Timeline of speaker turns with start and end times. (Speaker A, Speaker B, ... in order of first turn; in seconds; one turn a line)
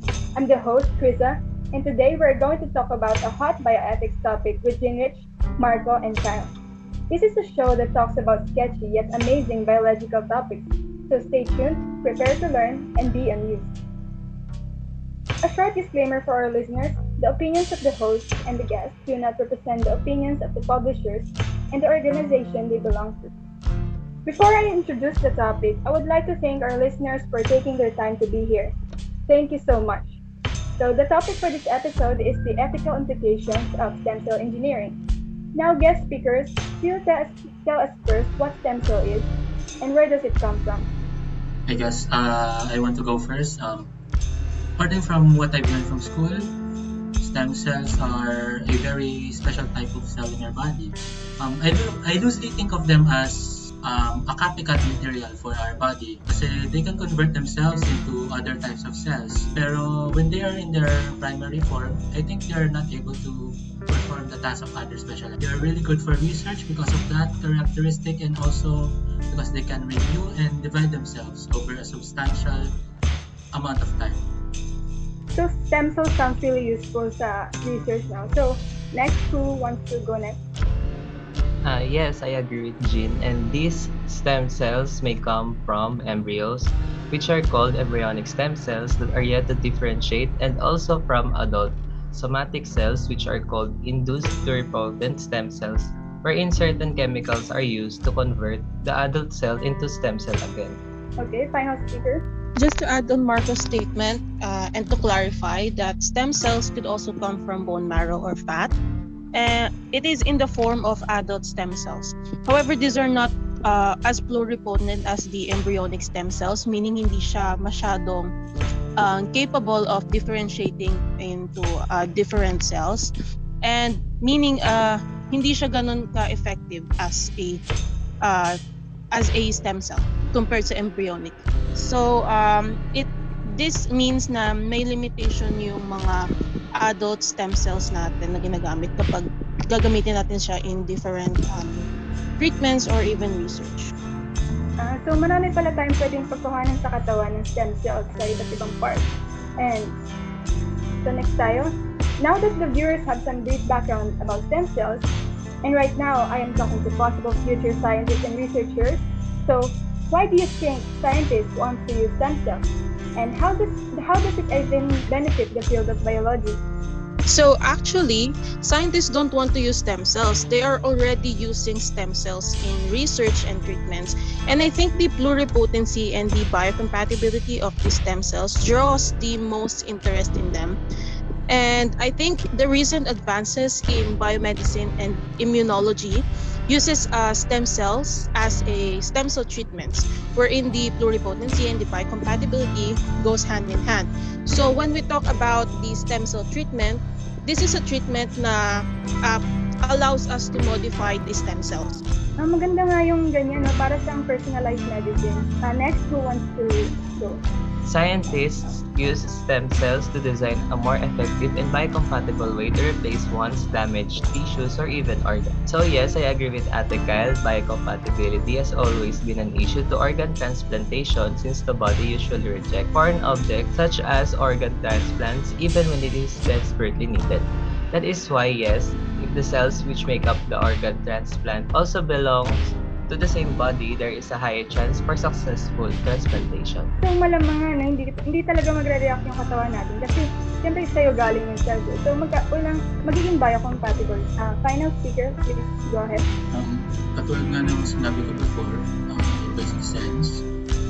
Speaker A: 0.4-6.5
Speaker A: 7.1-13.7
Speaker A: 15.4-23.3
Speaker A: 24.2-28.8
Speaker A: 29.3-30.2
Speaker A: 30.8-35.0
Speaker A: 35.5-39.3
Speaker A: 39.8-40.9
Speaker B: 41.7-43.9
Speaker B: 44.8-46.5
Speaker B: 47.2-72.7
Speaker B: 73.5-74.3
Speaker A: 75.3-80.4
Speaker C: 81.6-100.8
Speaker A: 101.2-102.2
Speaker D: 102.6-108.7
Speaker D: 109.3-118.3
Speaker D: 119.0-123.1
Speaker D: 123.6-127.6
Speaker D: 128.2-128.6
Speaker D: 129.1-141.9
Speaker D: 142.4-143.9
Speaker A: 144.8-149.1
Speaker A: 149.6-150.0
Speaker A: 151.0-155.1
Speaker A: 155.6-166.6
Speaker D: 167.3-180.8
Speaker D: 181.5-202.0
Speaker A: 202.4-207.4
Speaker C: 207.8-236.9
Speaker A: 237.0-246.3
Speaker B: 246.5-250.5